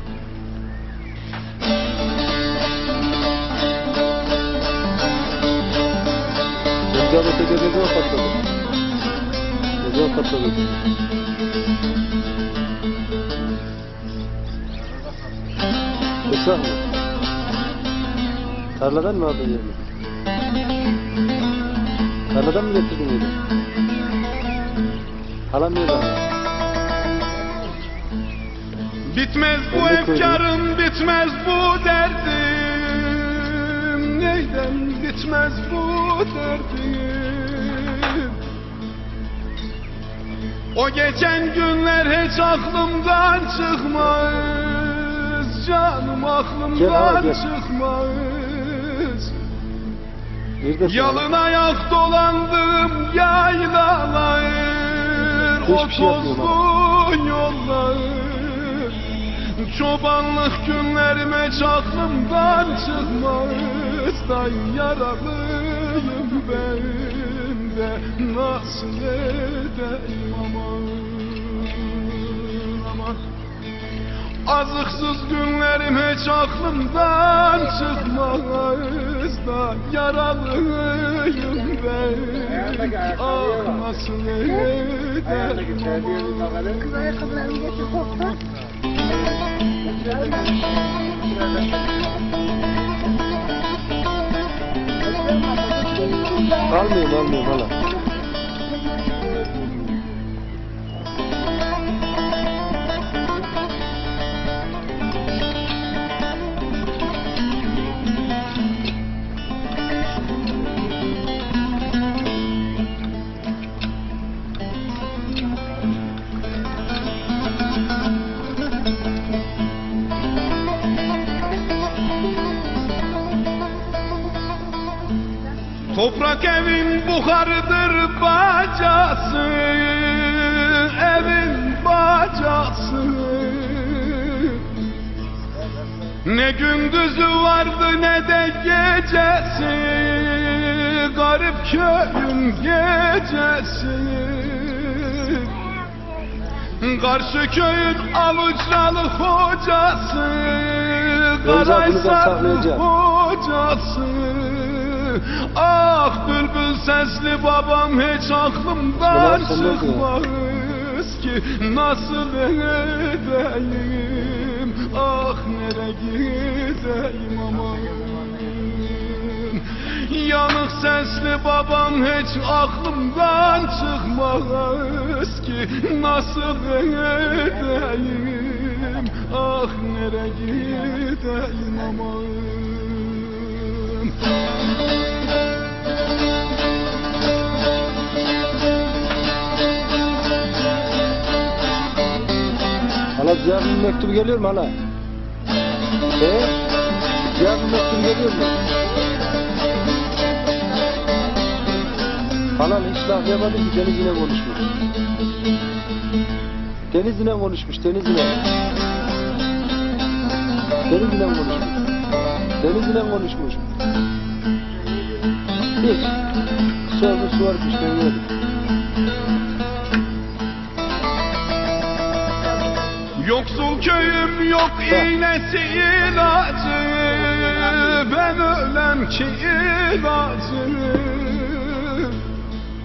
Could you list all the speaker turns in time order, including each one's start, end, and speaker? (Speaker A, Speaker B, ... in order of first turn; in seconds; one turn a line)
Speaker A: 6.9-8.4
Speaker A: 9.8-10.7
Speaker A: 16.3-16.8
Speaker A: 18.8-19.8
Speaker A: 22.3-23.3
Speaker A: 25.5-26.2
Speaker B: 29.1-38.4
Speaker A: 29.7-30.4
Speaker B: 40.7-49.4
Speaker A: 46.7-47.4
Speaker A: 50.6-51.2
Speaker B: 50.8-73.3
Speaker A: 55.6-56.6
Speaker B: 74.4-86.6
Speaker C: 86.5-88.3
Speaker C: 90.0-90.5
Speaker C: 95.1-96.5
Speaker A: 96.5-97.7
Speaker B: 125.8-134.8
Speaker B: 136.2-145.7
Speaker B: 146.8-184.2
Speaker A: 151.4-152.8
Speaker A: 158.9-160.1
Speaker A: 193.2-194.8
Speaker A: 196.2-196.5
Speaker A: 197.3-198.6
Speaker A: 202.6-204.7
Speaker A: 206.9-208.4
Speaker A: 210.9-211.8
Speaker A: 212.6-213.6
Speaker A: 215.8-216.2
Speaker A: 216.8-218.3
Speaker B: 223.2-232.3